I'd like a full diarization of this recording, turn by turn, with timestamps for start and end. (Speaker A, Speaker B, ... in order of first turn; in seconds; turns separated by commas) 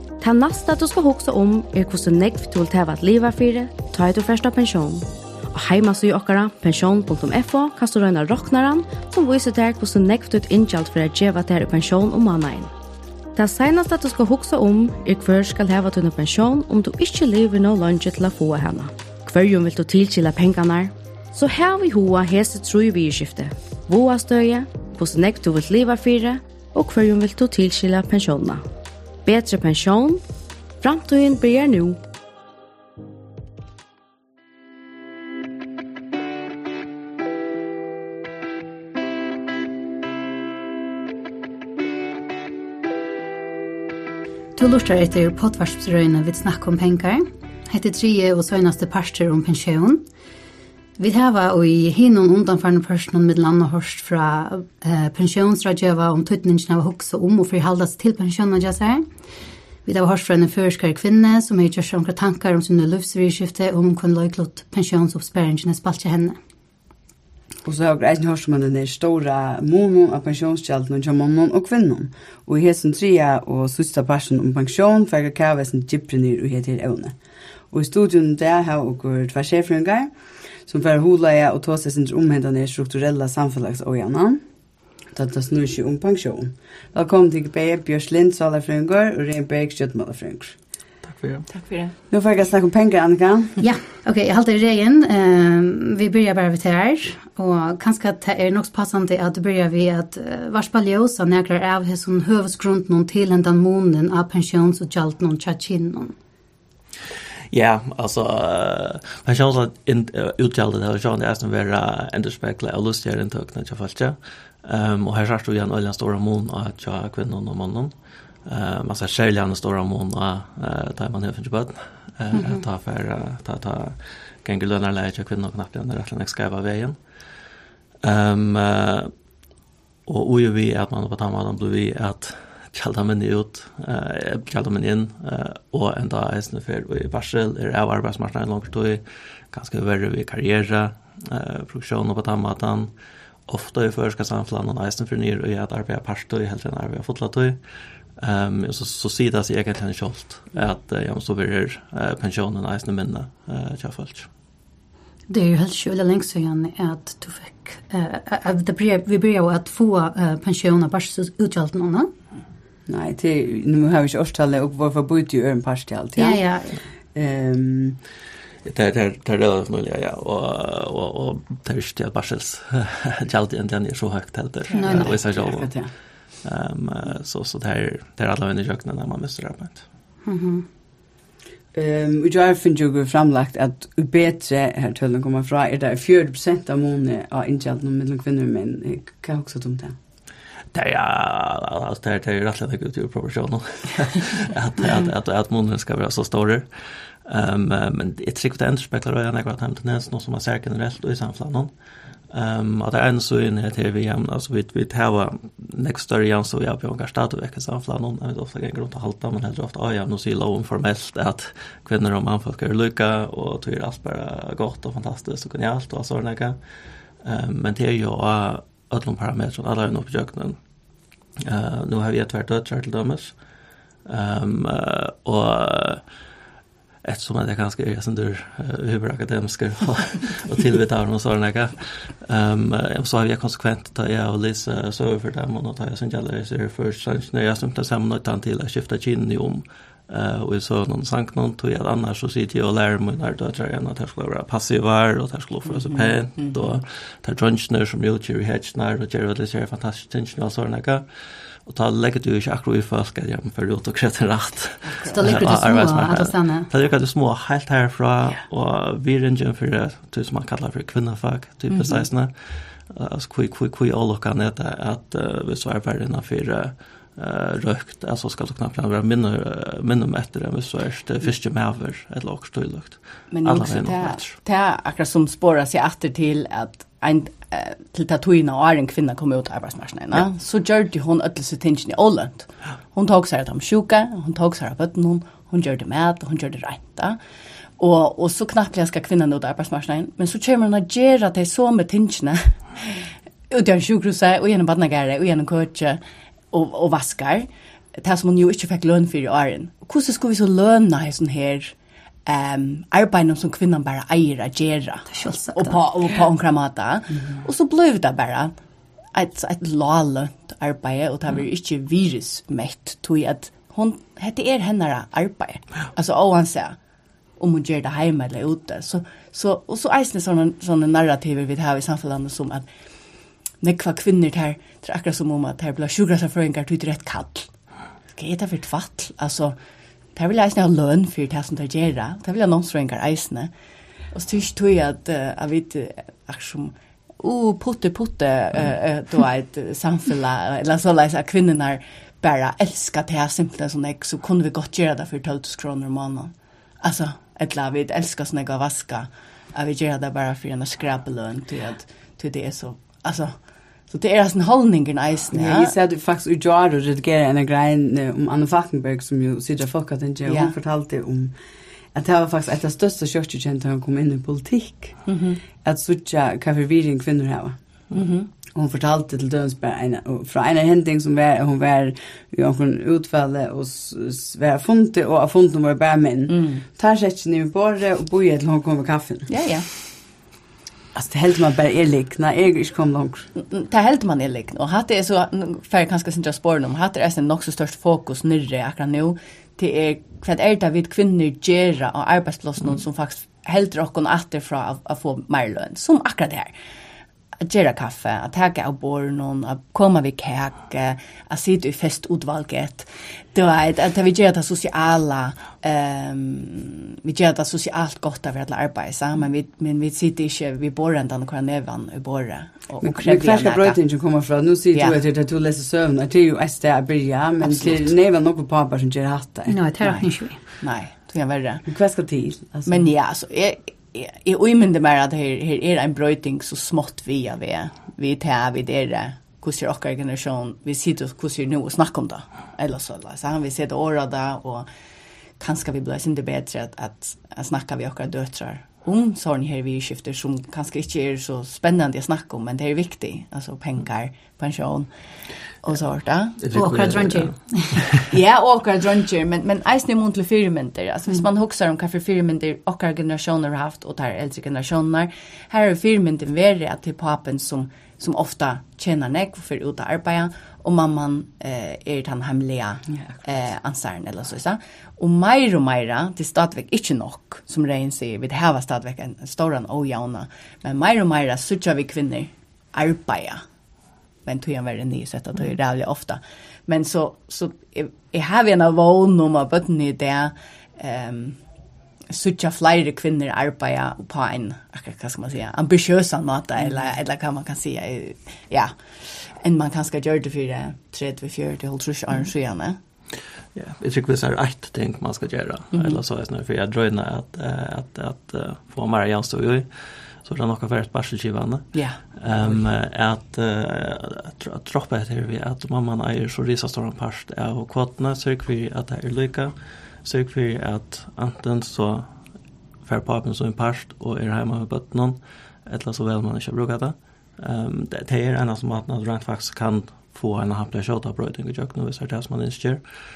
Speaker A: 0.2-12.7, Speaker A: 13.3-28.6, Speaker A: 29.2-30.2, Speaker A: 30.8-32.0, Speaker B: 44.6-50.0, Speaker B: 51.0-59.1, Speaker B: 59.9-66.4, Speaker C: 67.7-77.2, Speaker C: 77.7-80.1, Speaker C: 80.7-84.4, Speaker C: 85.1-90.6, Speaker D: 91.0-91.5, Speaker E: 91.5-91.9, Speaker C: 92.1-93.5, Speaker B: 93.6-106.2, Speaker D: 107.5-117.9, Speaker D: 118.5-127.0, Speaker B: 122.3-122.6, Speaker D: 128.0-129.1, Speaker D: 130.1-142.9, Speaker D: 143.5-147.6, Speaker D: 148.2-154.3, Speaker B: 155.3-162.1, Speaker C: 162.9-166.4, Speaker B: 166.2-166.8, Speaker C: 167.1-168.0, Speaker D: 168.7-175.7, Speaker B: 174.7-175.2, Speaker C: 174.9-175.9, Speaker D: 176.4-179.8, Speaker B: 180.2-180.7, Speaker C: 181.7-190.0, Speaker D: 190.7-196.7, Speaker D: 197.2-201.7, Speaker D: 202.3-216.6, Speaker D: 217.2-220.6, Speaker D: 221.4-223.3, Speaker D: 224.1-226.1, Speaker D: 227.0-274.4, Speaker E: 245.7-246.8, Speaker E: 254.8-255.3, Speaker B: 255.1-256.7, Speaker C: 261.7-262.0, Speaker E: 273.3-287.2, Speaker E: 287.8-301.7, Speaker E: 302.3-308.5, Speaker B: 305.1-305.8, Speaker E: 309.1-316.8, Speaker E: 317.4-322.7, Speaker E: 323.6-327.5, Speaker E: 328.1-329.6, Speaker E: 330.1-333.5, Speaker E: 334.1-355.7, Speaker C: 355.3-361.4, Speaker E: 360.3-360.5, Speaker C: 361.9-365.1, Speaker E: 365.1-365.4, Speaker C: 365.6-367.6, Speaker E: 367.9-368.3, Speaker C: 368.5-379.3, Speaker E: 376.3-376.6, Speaker E: 379.3-379.7, Speaker C: 380.9-383.3, Speaker E: 383.4-396.5, Speaker E: 397.4-413.8, Speaker C: 412.8-419.6, Speaker B: 419.5-420.4, Speaker E: 419.8-421.7, Speaker C: 421.7-422.9, Speaker E: 422.7-434.7, Speaker E: 435.4-444.9, Speaker E: 445.6-446.4, Speaker D: 446.4-448.0, Speaker B: 446.5-447.9, Speaker E: 448.1-473.4, Speaker E: 474.2-481.4, Speaker E: 482.1-492.8, Speaker D: 493.6-499.7, Speaker E: 495.7-496.0, Speaker D: 500.2-512.1, Speaker E: 501.7-502.0, Speaker D: 512.9-522.8